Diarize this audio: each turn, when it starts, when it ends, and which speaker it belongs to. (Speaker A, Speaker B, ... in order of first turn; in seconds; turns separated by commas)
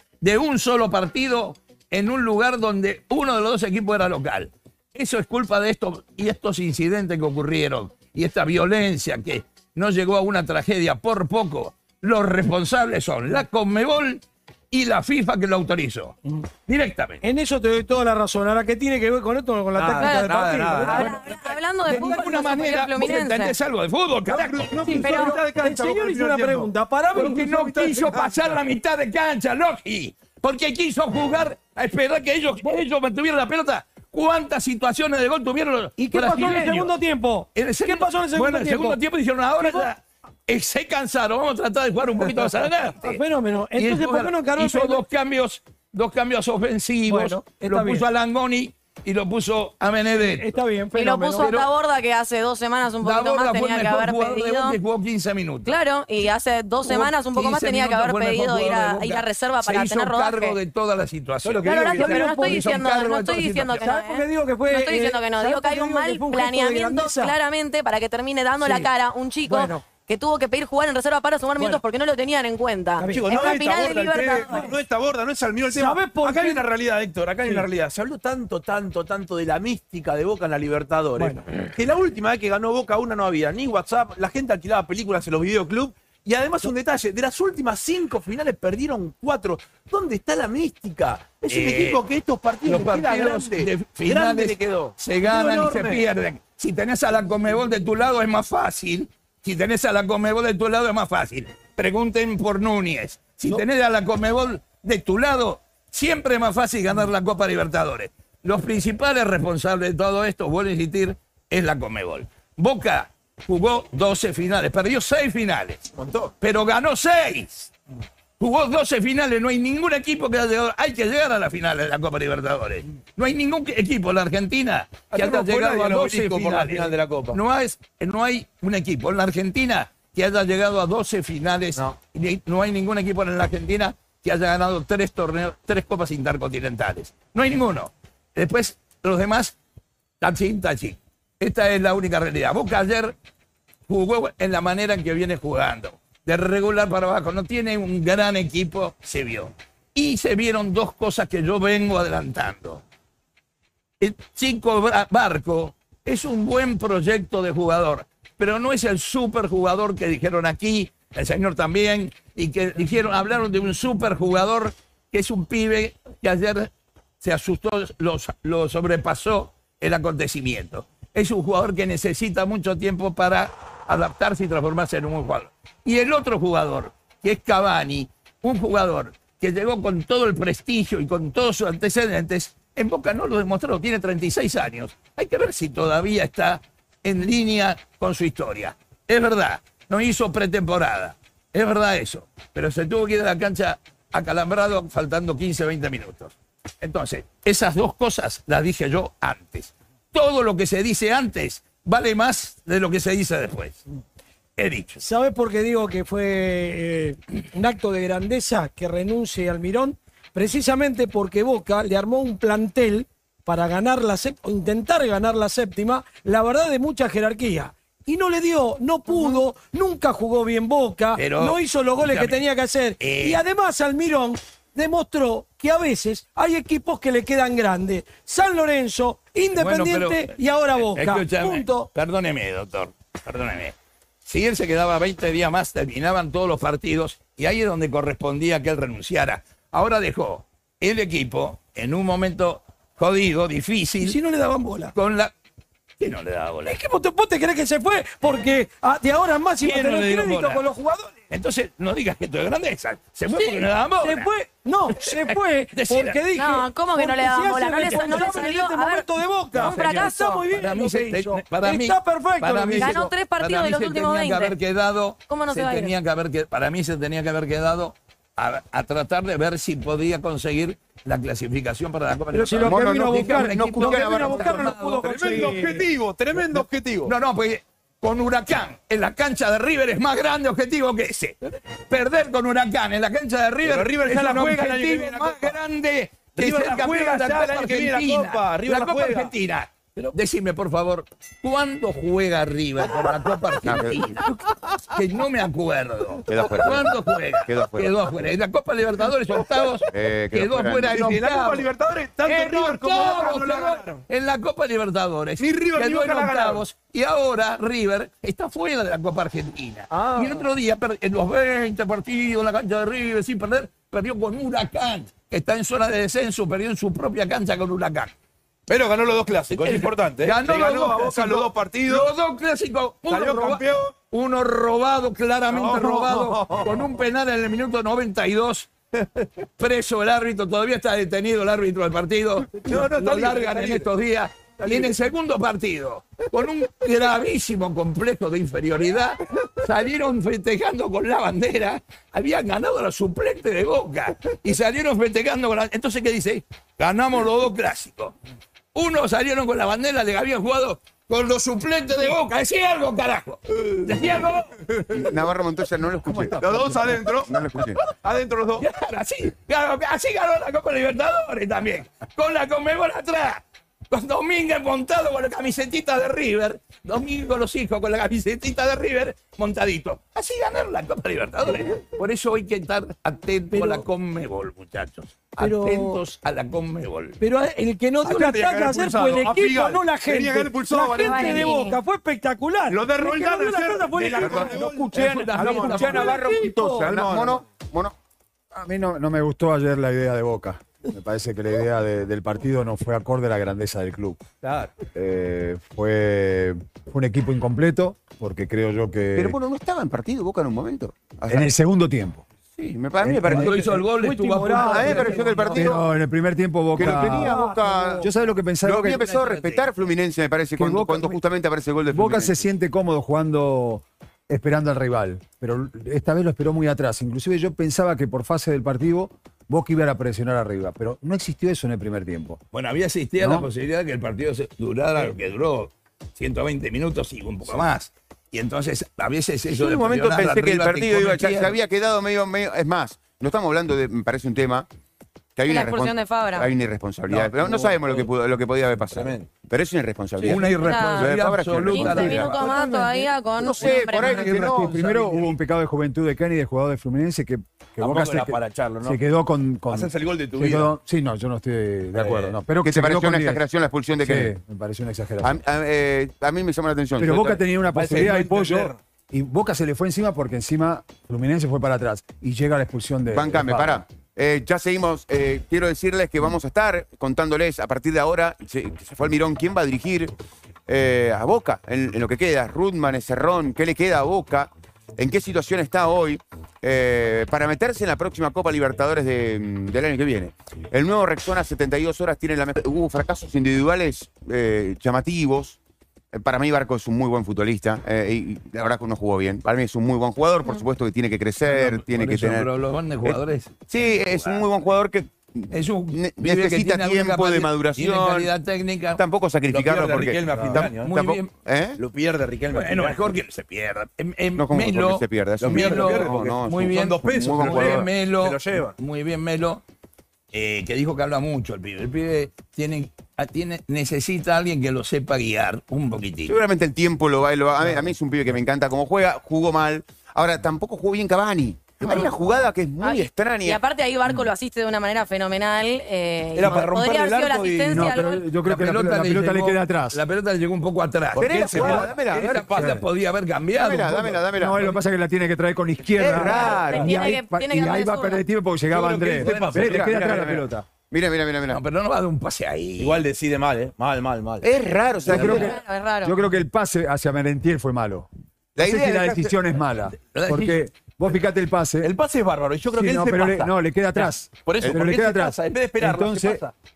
Speaker A: 0.2-16.2, Speaker A: 16.7-17.2, Speaker B: 17.2-21.0, Speaker C: 19.8-21.2, Speaker D: 20.0-23.6, Speaker A: 20.0-25.1, Speaker C: 24.2-26.7, Speaker B: 24.7-28.3, Speaker D: 24.9-25.3, Speaker A: 27.1-37.0, Speaker C: 27.6-28.6, Speaker B: 36.0-39.0, Speaker A: 37.5-43.2, Speaker B: 39.6-39.9, Speaker B: 42.2-45.0, Speaker A: 43.8-50.5, Speaker B: 47.1-48.1, Speaker B: 50.2-51.7, Speaker D: 51.0-54.8, Speaker A: 51.4-51.7, Speaker A: 53.0-55.8, Speaker D: 55.6-60.6, Speaker A: 56.8-63.8, Speaker C: 61.4-62.8, Speaker D: 61.6-74.7, Speaker B: 62.0-62.7, Speaker B: 63.7-67.3, Speaker B: 68.6-68.9, Speaker B: 69.5-69.9, Speaker B: 73.0-73.3, Speaker C: 73.2-96.1, Speaker B: 75.7-76.7, Speaker B: 81.2-81.4, Speaker A: 91.5-92.0, Speaker A: 92.7-115.8, Speaker C: 115.9-116.3, Speaker A: 116.4-117.7, Speaker A: 118.4-139.6, Speaker C: 125.1-127.4, Speaker A: 140.2-143.2, Speaker A: 143.9-152.8, Speaker A: 154.0-166.7, Speaker A: 167.2-203.8, Speaker A: 204.6-205.0, Speaker B: 205.0-231.9, Speaker A: 221.2-222.4, Speaker A: 223.0-223.4, Speaker A: 229.5-233.7, Speaker A: 234.3-244.2, Speaker B: 244.0-244.9, Speaker A: 244.9-245.3, Speaker A: 246.0-246.8, Speaker B: 246.7-251.2, Speaker A: 249.6-250.7, Speaker A: 251.3-254.3, Speaker B: 253.3-263.1, Speaker A: 254.9-256.2, Speaker D: 256.4-260.5, Speaker A: 259.6-275.4, Speaker D: 262.8-264.6, Speaker D: 265.3-265.9, Speaker B: 272.3-275.9, Speaker E: 272.6-274.7, Speaker C: 274.8-277.1, Speaker A: 277.1-281.4, Speaker A: 281.9-294.4, Speaker C: 283.6-285.6, Speaker C: 286.4-289.3, Speaker E: 293.6-294.2, Speaker A: 294.9-301.6, Speaker E: 296.3-298.1, Speaker E: 299.9-301.0, Speaker C: 300.9-304.0, Speaker A: 302.3-318.1, Speaker C: 305.4-306.6, Speaker C: 309.9-310.5, Speaker C: 318.7-322.1, Speaker A: 319.5-328.7, Speaker C: 323.1-323.9, Speaker C: 325.5-326.9, Speaker A: 329.6-348.1, Speaker C: 332.5-333.9, Speaker C: 334.6-334.9, Speaker A: 348.8-354.5, Speaker E: 354.9-357.8, Speaker C: 356.3-358.7, Speaker A: 358.6-377.2, Speaker B: 373.5-373.9, Speaker B: 375.4-376.2, Speaker B: 377.2-387.0, Speaker C: 378.1-381.5, Speaker D: 380.9-381.8, Speaker C: 382.7-385.9, Speaker A: 384.9-386.1, Speaker E: 385.6-387.9, Speaker C: 387.0-387.3, Speaker F: 388.5-394.2, Speaker C: 394.4-394.8, Speaker F: 394.9-399.4, Speaker E: 399.2-401.5, Speaker F: 401.3-402.2, Speaker E: 402.6-403.6, Speaker F: 403.0-403.8, Speaker A: 403.3-405.5, Speaker B: 403.9-405.8, Speaker E: 404.6-405.9, Speaker F: 405.6-407.4, Speaker E: 406.8-408.1, Speaker B: 406.8-408.1, Speaker F: 408.0-409.1, Speaker E: 408.6-412.5, Speaker A: 408.9-409.6, Speaker F: 410.6-411.2, Speaker F: 411.9-422.4, Speaker A: 422.5-431.6, Speaker F: 423.2-423.5, Speaker E: 429.5-434.7, Speaker E: 435.4-442.5, Speaker D: 435.5-436.5, Speaker C: 437.1-438.1, Speaker C: 438.9-439.3, Speaker A: 440.2-442.5, Speaker D: 440.3-444.3, Speaker E: 443.4-445.1, Speaker F: 443.4-453.4, Speaker C: 447.8-449.0, Speaker C: 449.7-450.8, Speaker C: 451.9-452.4, Speaker E: 452.6-454.4, Speaker F: 453.9-455.4, Speaker E: 455.2-457.4, Speaker F: 457.0-463.9, Speaker C: 457.6-458.8, Speaker E: 463.1-470.1, Speaker E: 470.7-485.6, Speaker E: 486.1-492.5, Speaker A: 491.5-494.7, Speaker E: 493.0-498.3, Speaker A: 495.5-499.0, Speaker E: 499.0-501.8, Speaker C: 499.5-500.9, Speaker F: 500.3-500.6, Speaker A: 500.7-501.4, Speaker C: 501.8-503.1, Speaker A: 502.5-509.6, Speaker E: 504.4-507.9, Speaker C: 505.4-508.8, Speaker A: 510.3-516.4, Speaker E: 516.3-523.6, Speaker D: 522.8-528.3, Speaker C: 526.4-528.0, Speaker F: 527.7-530.0, Speaker A: 528.4-534.3, Speaker E: 531.1-532.6, Speaker C: 531.2-532.8, Speaker F: 531.5-532.0, Speaker F: 532.5-532.8, Speaker E: 533.5-534.7, Speaker F: 534.3-540.7, Speaker E: 536.0-536.9, Speaker D: 536.1-538.2, Speaker C: 538.7-540.2, Speaker E: 539.3-541.6, Speaker A: 541.5-543.0, Speaker C: 542.8-544.5, Speaker E: 544.4-545.6, Speaker D: 545.1-546.1, Speaker F: 545.1-551.9, Speaker E: 548.6-549.3, Speaker A: 550.0-550.8, Speaker C: 551.8-556.5, Speaker F: 552.7-556.4